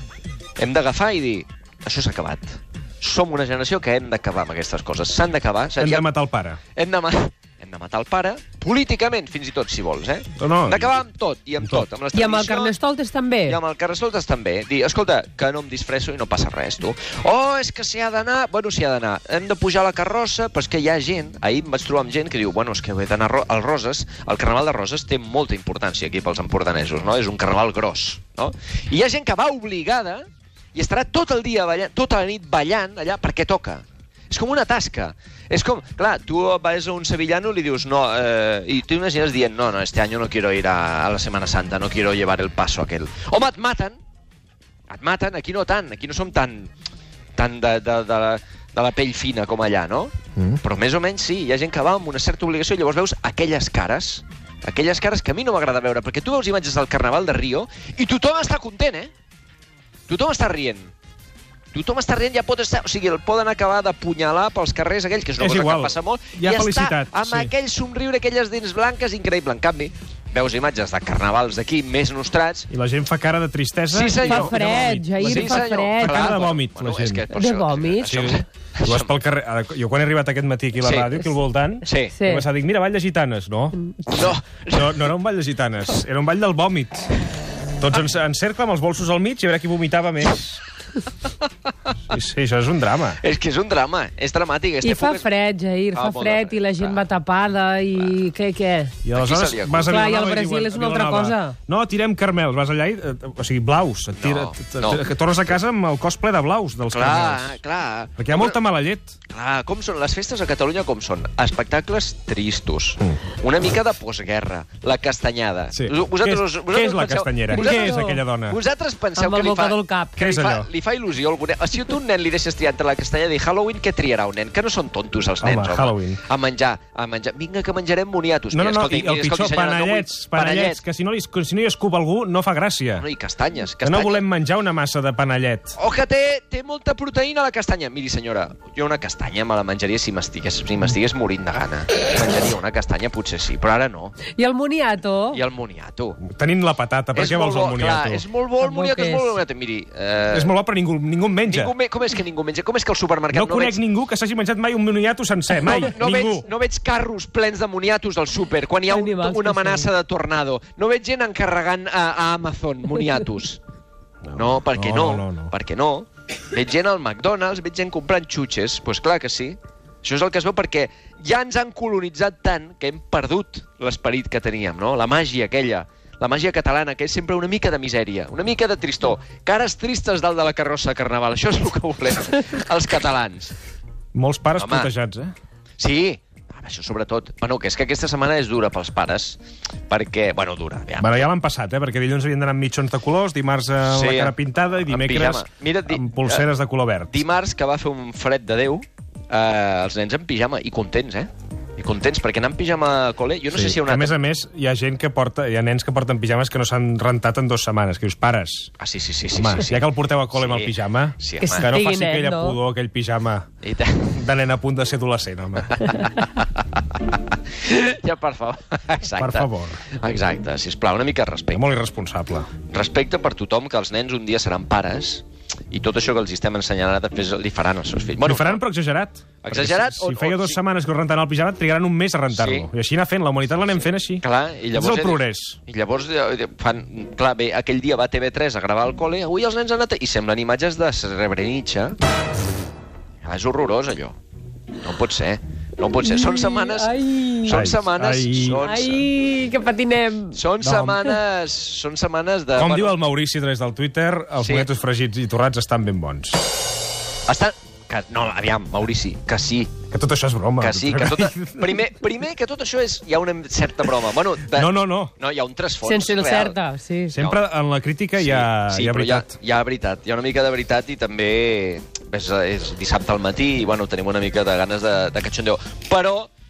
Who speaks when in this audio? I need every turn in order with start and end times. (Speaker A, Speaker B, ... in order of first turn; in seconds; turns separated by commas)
Speaker A: 0.6-6.1, Speaker B: 5.8-6.6, Speaker A: 6.7-12.8, Speaker B: 10.4-11.0, Speaker B: 11.6-11.9, Speaker C: 12.1-13.6, Speaker A: 13.5-44.0, Speaker A: 44.9-46.7, Speaker A: 47.4-59.1, Speaker A: 60.1-60.9, Speaker A: 61.7-72.7, Speaker B: 65.4-67.5, Speaker B: 72.7-77.3, Speaker A: 73.9-79.1, Speaker C: 74.2-76.5, Speaker C: 77.3-78.4, Speaker B: 78.0-87.1, Speaker A: 80.8-81.3, Speaker A: 81.8-82.2, Speaker C: 82.1-82.5, Speaker A: 84.1-85.1, Speaker B: 87.8-90.6, Speaker B: 92.1-93.2, Speaker A: 93.2-95.3, Speaker C: 94.8-98.9, Speaker A: 95.9-97.0, Speaker B: 99.0-107.6, Speaker A: 99.1-100.1, Speaker C: 99.9-101.6, Speaker A: 104.2-105.1, Speaker A: 106.9-108.6, Speaker B: 108.2-109.2, Speaker A: 109.3-130.8, Speaker B: 115.7-118.6, Speaker C: 117.5-118.2, Speaker C: 119.2-120.2, Speaker B: 120.2-120.7, Speaker B: 125.4-126.2, Speaker B: 128.5-133.1, Speaker A: 133.0-134.2, Speaker B: 133.8-135.8, Speaker A: 135.8-144.2, Speaker C: 144.3-145.4, Speaker A: 145.3-146.2, Speaker B: 146.2-148.2, Speaker A: 147.1-150.5, Speaker C: 148.6-149.4, Speaker B: 150.3-151.7, Speaker A: 151.5-153.8, Speaker B: 153.3-156.5, Speaker A: 155.7-163.6, Speaker C: 158.9-159.9, Speaker B: 164.2-165.5, Speaker A: 164.4-183.6, Speaker B: 184.2-185.3, Speaker A: 184.6-184.9, Speaker A: 185.8-191.2, Speaker B: 191.0-197.2, Speaker A: 193.9-194.3, Speaker A: 194.9-196.5, Speaker A: 197.1-204.2, Speaker B: 203.5-208.7, Speaker A: 208.8-211.7, Speaker B: 209.3-213.5, Speaker C: 211.4-212.6, Speaker A: 213.6-214.2, Speaker B: 214.1-215.9, Speaker A: 215.7-221.7, Speaker B: 219.2-219.8, Speaker B: 221.5-222.5, Speaker A: 222.7-228.6, Speaker B: 228.2-235.6, Speaker A: 229.4-230.6, Speaker A: 232.3-232.7, Speaker A: 234.2-242.0, Speaker A: 243.2-244.2, Speaker A: 244.8-249.1, Speaker C: 246.0-247.7, Speaker B: 247.5-248.7, Speaker C: 248.6-250.4, Speaker A: 250.3-253.0, Speaker B: 250.6-251.0, Speaker B: 252.6-256.4, Speaker A: 254.4-254.7, Speaker A: 257.3-259.7, Speaker B: 259.9-261.8, Speaker A: 260.6-266.6, Speaker B: 264.5-265.1, Speaker C: 265.8-267.1, Speaker B: 267.1-269.3, Speaker A: 267.1-267.4, Speaker A: 268.2-276.3